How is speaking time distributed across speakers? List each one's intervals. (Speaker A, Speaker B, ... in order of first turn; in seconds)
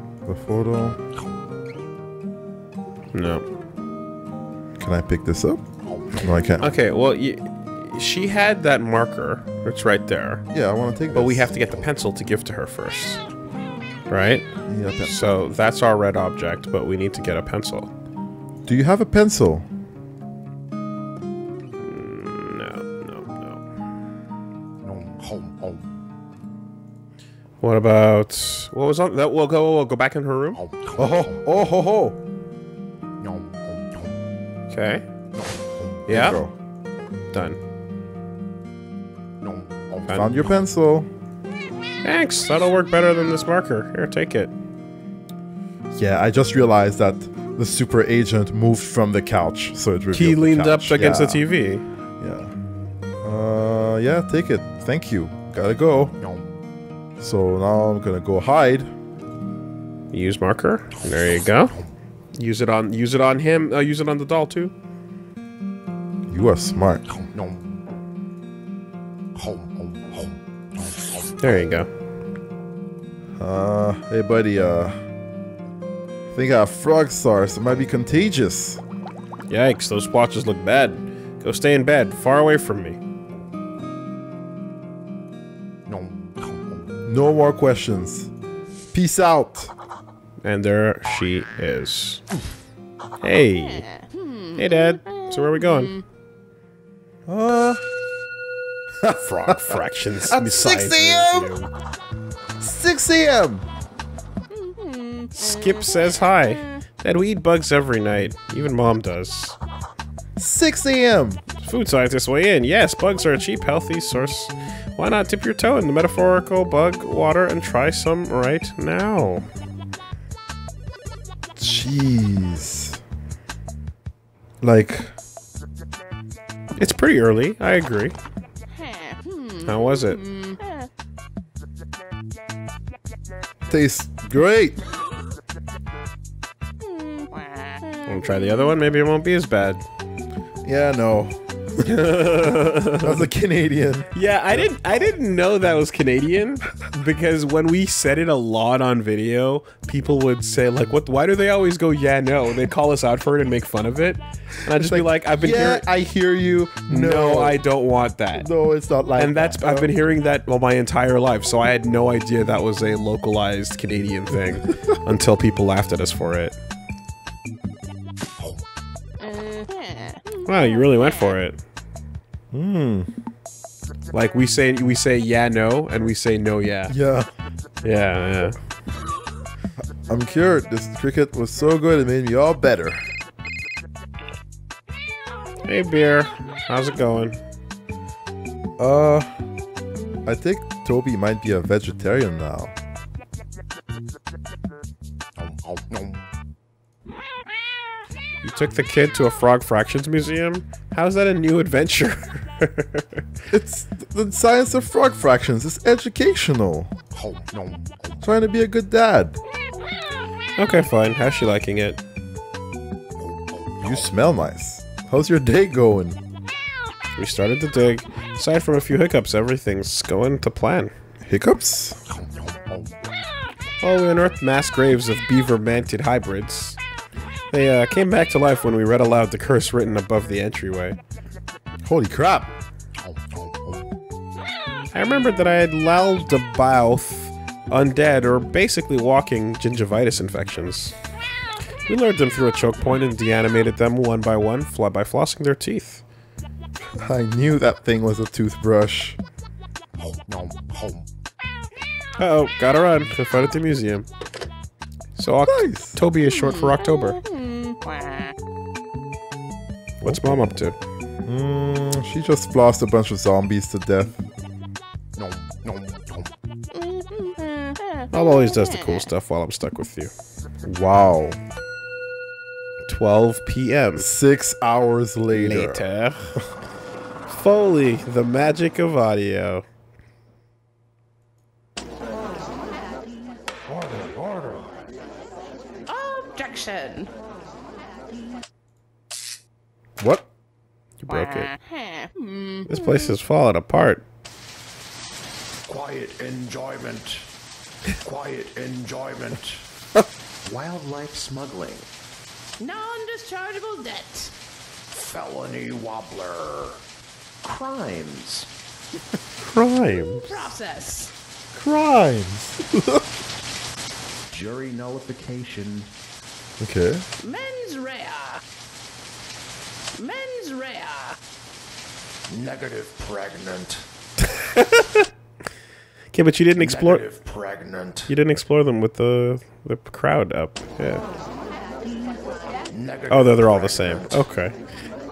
Speaker A: 0.2-1.0, 4.8-6.7, 10.5-11.5, 14.7-15.2, 18.6-19.6, 30.9-32.2, 36.1-36.5, 40.1-41.1, 45.9-51.4, 52.2-52.5, 53.2-56.2, 57.2-58.9, 66.3-67.0, 73.4-75.0, 76.3-78.8, 87.0-88.3, 88.9-89.7, 97.3-97.8, 99.0-101.6, 102.6-103.7, 110.4-111.4, 121.6-123.0, 124.6-125.1, 133.7-134.8, 140.6-145.1, 154.8-157.6, 158.4-159.9, 172.5-173.1, 176.9-177.3, 180.0-183.0, 188.8-189.3, 190.2-192.8, 203.5-206.9, 208.2-209.4, 213.8-216.2, 221.2-222.0, 231.8-232.5, 246.9-249.2, 255.4-256.0, 260.0-260.6, 261.2-264.2, 270.6-271.4, 274.0-275.8, 283.7-284.6, 290.0-290.2, 311.5-313.0, 316.6-317.0
Speaker B: 3.1-3.4, 6.6-10.4, 11.1-13.2, 14.1-14.4, 15.0-17.9, 21.8-23.6, 27.6-30.6, 34.7-35.0, 36.1-36.4, 37.3-37.6, 40.0-40.3, 42.0-44.5, 50.1-51.8, 60.1-61.8, 62.3-64.7, 71.4-71.9, 79.5-83.0, 90.4-92.2, 93.2-93.9, 94.5-96.0, 99.2-101.7, 105.3-109.6, 111.6-119.4, 126.8-128.1, 129.6-130.3, 138.1-139.8, 141.8-143.2, 144.1-155.8, 156.9-158.5, 159.2-166.5, 170.4-171.6, 174.1-176.9, 177.8-178.5, 185.6-187.4, 198.4-203.2, 210.6-212.0, 217.2-220.9, 223.8-226.8, 227.5-231.0, 234.9-240.9, 241.9-246.0, 252.2-254.1, 255.2-257.2, 260.0-260.8, 268.1-270.1, 272.9-274.1, 275.3-276.3, 277.3-279.6, 291.0-291.6, 292.7-294.0, 309.4-310.4, 324.5-325.1, 326.1-327.0, 328.1-331.0, 333.1-334.5
Speaker C: 285.9-287.1, 302.6-304.3, 310.0-311.1, 317.2-318.4, 319.9-321.2
Speaker D: 295.7-297.2, 298.0-299.6, 300.4-301.9, 304.9-306.8, 307.4-308.5, 314.3-315.9, 322.3-323.8, 326.6-328.1, 332.7-334.3